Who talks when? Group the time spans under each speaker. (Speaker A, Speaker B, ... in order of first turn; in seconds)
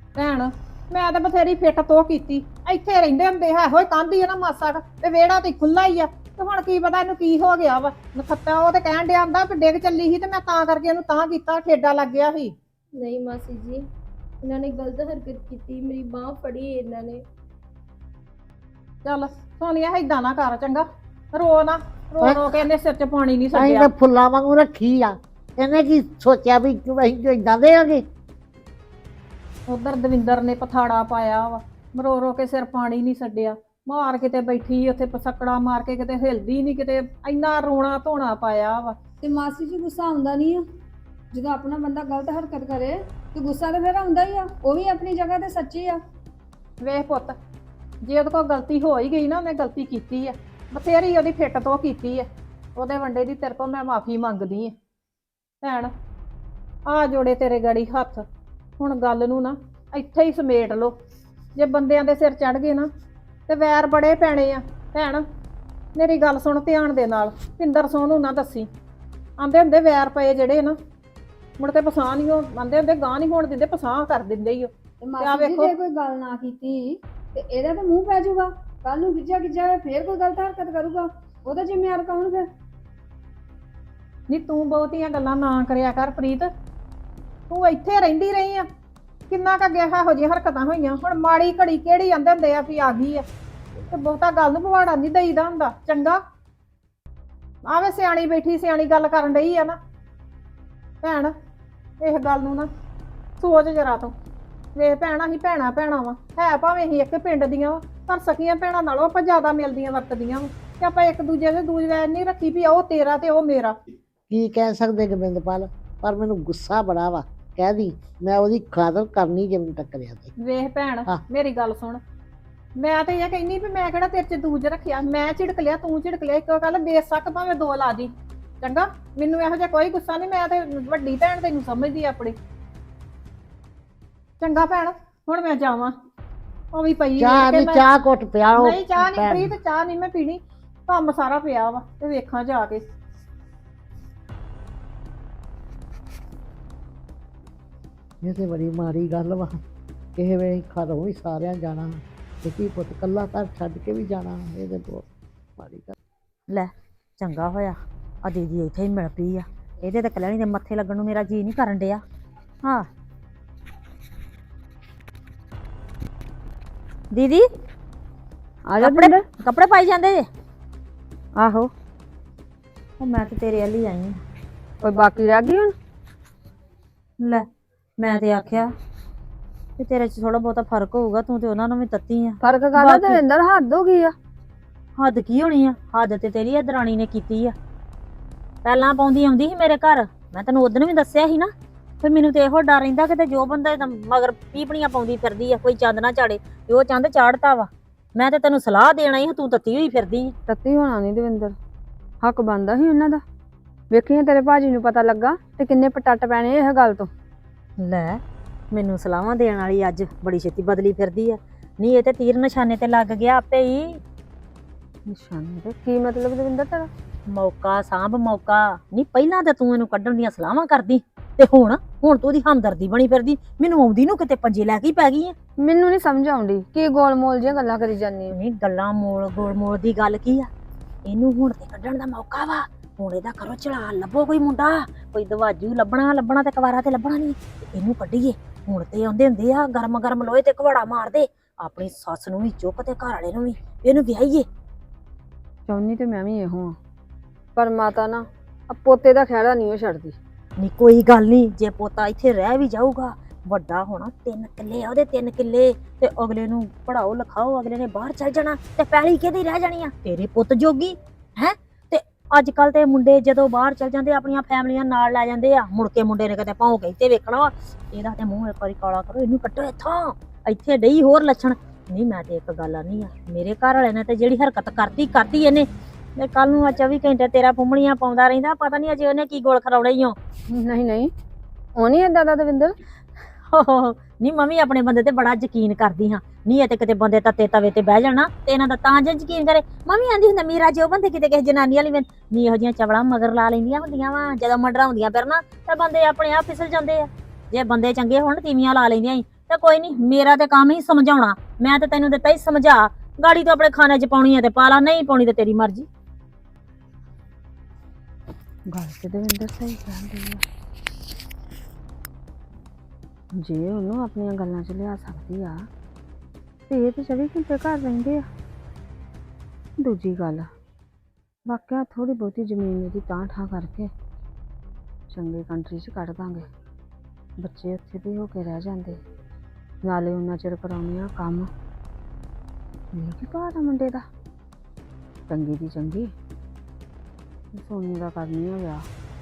Speaker A: 0.1-12.5, 19.0-23.9, 29.7-39.0, 46.8-47.4, 48.0-54.8, 55.6-55.9, 56.9-58.3, 58.8-61.0, 61.5-62.9, 63.5-65.2, 65.9-68.7, 69.4-70.8, 71.6-74.7, 75.2-75.7, 84.3-86.5, 87.5-88.7, 89.3-93.2, 93.9-96.2, 97.6-99.8, 101.0-101.3, 102.0-102.7, 103.4-104.1, 104.8-113.8, 120.4-122.0, 122.8-132.3, 134.4-135.9, 136.7-137.8, 138.6-142.8
Speaker B: 12.9-13.9, 14.4-17.2
Speaker C: 23.5-28.0, 114.3-120.3, 137.2-139.5, 148.2-149.6, 150.2-155.0, 155.6-155.9
Speaker D: 39.2-40.6, 41.3-46.0, 75.0-82.5, 168.7-169.2, 171.4-171.7, 174.8-175.7, 182.4-184.1, 200.5-201.5, 202.2-203.2, 203.9-207.1, 215.1-216.9, 225.6-228.3, 245.7-246.8, 247.6-250.2, 280.5-281.1, 281.8-282.8, 308.7-310.4, 313.4-315.6, 316.7-318.2, 319.8-320.5, 321.4-323.9, 325.1-326.5, 327.4-329.0, 329.8-331.5, 332.9-334.0, 335.3-336.1, 337.5-338.9
Speaker E: 156.5-162.0, 167.1-167.4, 168.8-170.2, 173.0-174.2, 178.0-178.7, 179.8-183.2, 185.0-187.5, 188.6-191.5, 192.0-200.3, 207.8-208.2, 208.7-214.0, 217.3-225.3, 228.3-230.5, 231.0-244.4, 250.6-275.7, 276.2-280.1, 283.5-305.9